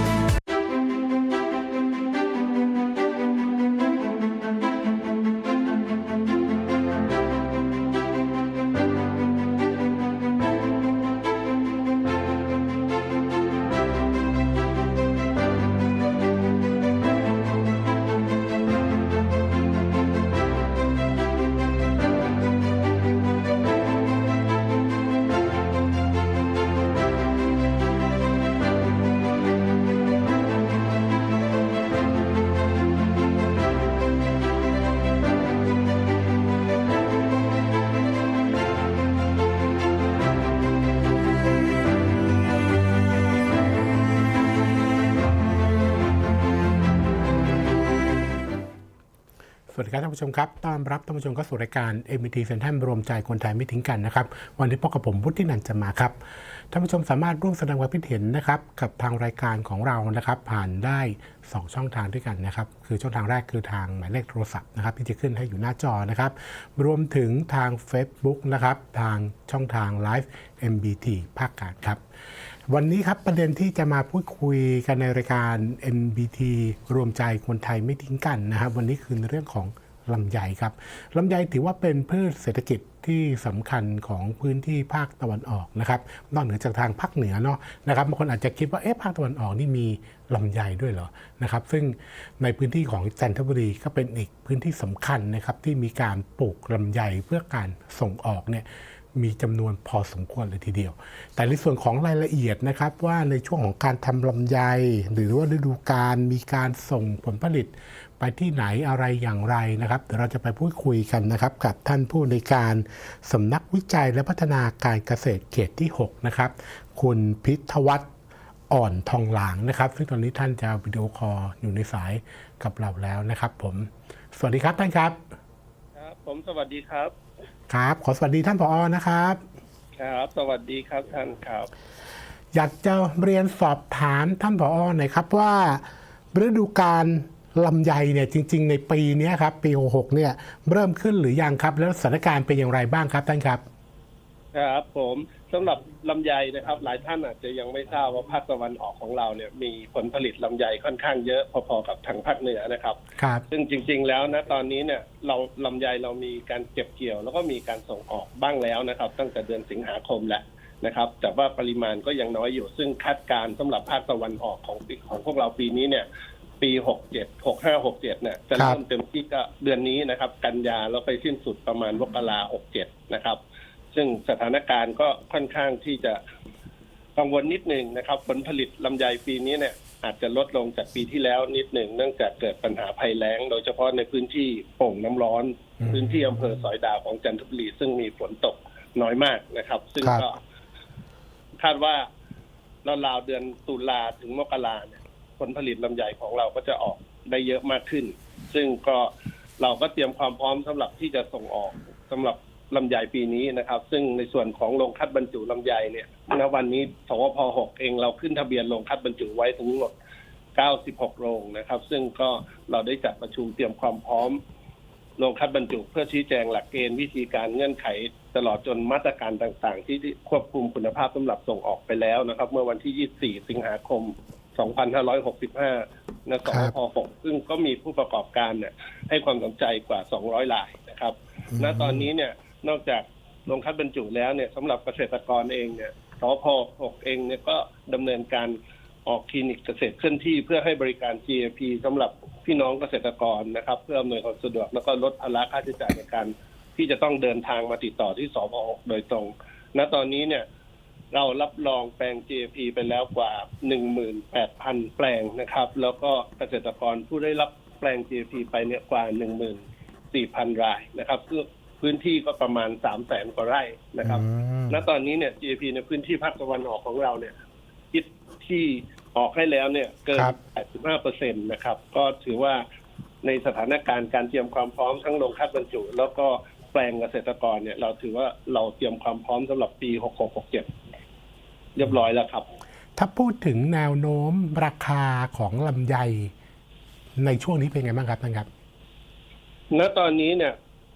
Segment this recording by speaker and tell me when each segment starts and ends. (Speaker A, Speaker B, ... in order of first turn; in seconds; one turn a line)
Speaker A: 49.7-56.2
Speaker A: 56.7-72.0
Speaker A: 72.7-118.1
Speaker A: 118.7-125.2
Speaker B: 126.0-127.1
Speaker A: 127.7-129.4
Speaker B: 130.0-131.7
Speaker A: 132.5-143.6
Speaker B: 144.5-166.1
Speaker A: 153.2-153.4
Speaker B: 166.6-173.4
Speaker B: 173.9-176.2
Speaker B: 177.2-190.4
Speaker A: 185.8-186.6
Speaker B: 191.6-192.1
Speaker B: 192.8-209.9
Speaker B: 210.6-214.4
Speaker B: 215.2-250.4
Speaker A: 226.5-226.7
Speaker A: 231.5-232.1
Speaker B: 251.1-259.6
Speaker B: 260.1-267.3
Speaker A: 264.0-264.8
Speaker B: 267.9-272.6
Speaker B: 273.2-280.7
Speaker B: 281.8-282.5
Speaker A: 282.9-286.3
Speaker A: 287.2-288.5
Speaker B: 289.7-290.6